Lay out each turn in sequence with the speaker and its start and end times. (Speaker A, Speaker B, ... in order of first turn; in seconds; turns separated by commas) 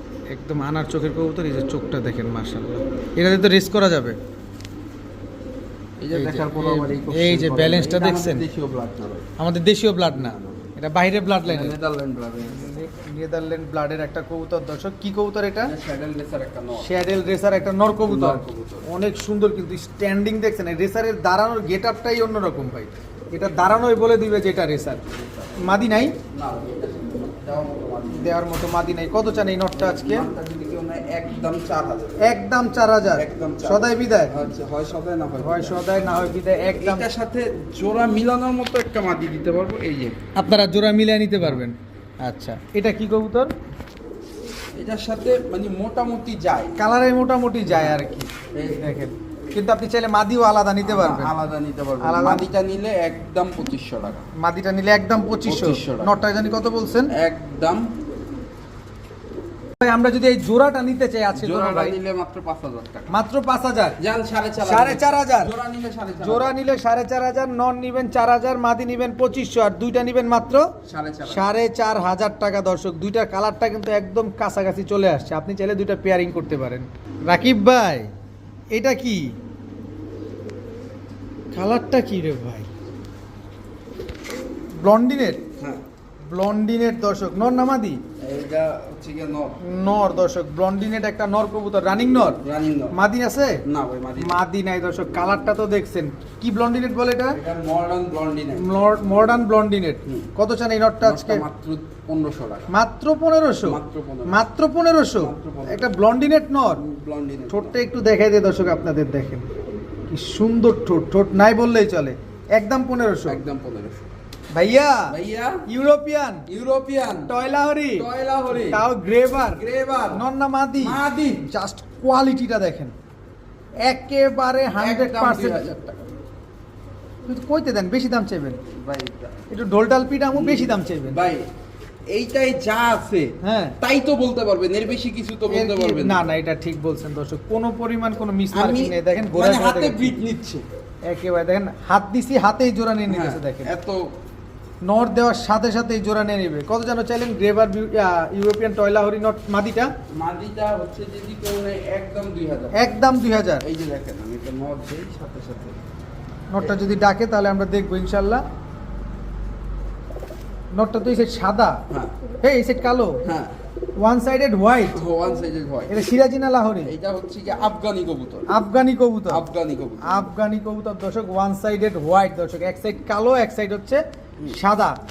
Speaker A: 0.3-4.2, Speaker B: 6.0-9.3, Speaker A: 6.1-8.4, Speaker A: 9.4-11.8, Speaker B: 10.1-10.7, Speaker B: 11.4-12.7, Speaker A: 12.4-15.7, Speaker B: 15.6-16.9, Speaker A: 16.8-25.0, Speaker B: 18.1-18.8, Speaker B: 25.0-28.4, Speaker A: 25.6-26.1, Speaker A: 28.1-30.2, Speaker B: 29.7-32.3, Speaker A: 32.2-34.3, Speaker B: 33.1-35.9, Speaker A: 35.4-37.1, Speaker B: 36.7-40.2, Speaker A: 40.3-43.5, Speaker B: 44.8-46.8, Speaker A: 46.8-51.3, Speaker B: 47.6-49.0, Speaker B: 50.8-54.3, Speaker A: 52.0-52.5, Speaker A: 54.4-57.1, Speaker B: 55.4-56.1, Speaker B: 57.1-57.9, Speaker A: 59.8-62.0, Speaker B: 61.3-63.1, Speaker A: 63.1-64.0, Speaker B: 64.0-66.6, Speaker A: 64.6-65.5, Speaker A: 66.2-70.7, Speaker B: 70.8-71.5, Speaker A: 71.3-78.1, Speaker A: 78.7-79.3, Speaker A: 81.5-82.7, Speaker A: 84.8-85.4, Speaker A: 86.3-88.0, Speaker B: 88.2-89.6, Speaker A: 89.6-92.4, Speaker B: 92.4-93.0, Speaker A: 92.9-93.6, Speaker B: 93.6-94.4, Speaker A: 94.2-97.4, Speaker B: 97.3-98.8, Speaker A: 98.6-101.4, Speaker B: 100.0-100.3, Speaker B: 101.0-102.7, Speaker A: 102.7-106.8, Speaker B: 103.6-104.4, Speaker B: 105.1-105.9, Speaker B: 106.8-107.8, Speaker A: 107.5-109.5, Speaker A: 110.1-113.4, Speaker B: 113.3-114.2, Speaker A: 114.5-115.1, Speaker B: 115.1-115.6, Speaker A: 115.7-116.5, Speaker B: 116.5-117.3, Speaker A: 117.3-118.0, Speaker B: 117.9-118.8, Speaker A: 118.6-122.9, Speaker B: 119.5-120.2, Speaker B: 120.8-121.5, Speaker A: 123.8-125.6, Speaker B: 124.8-126.0, Speaker A: 127.2-128.6, Speaker B: 128.7-129.4, Speaker A: 129.5-131.2, Speaker B: 130.3-131.5, Speaker B: 132.1-136.3, Speaker A: 133.4-133.8, Speaker A: 135.5-140.1, Speaker B: 138.5-140.7, Speaker A: 141.1-143.7, Speaker B: 143.1-144.1, Speaker A: 144.8-149.9, Speaker B: 150.1-152.9, Speaker A: 152.7-153.6, Speaker B: 153.6-155.8, Speaker A: 156.5-158.4, Speaker A: 160.7-161.8, Speaker B: 161.9-162.1, Speaker A: 162.4-163.2, Speaker B: 163.2-163.6, Speaker A: 164.0-165.0, Speaker B: 164.9-166.0, Speaker A: 165.9-166.9, Speaker B: 166.8-168.6, Speaker A: 168.5-169.4, Speaker B: 169.3-170.2, Speaker A: 170.0-175.0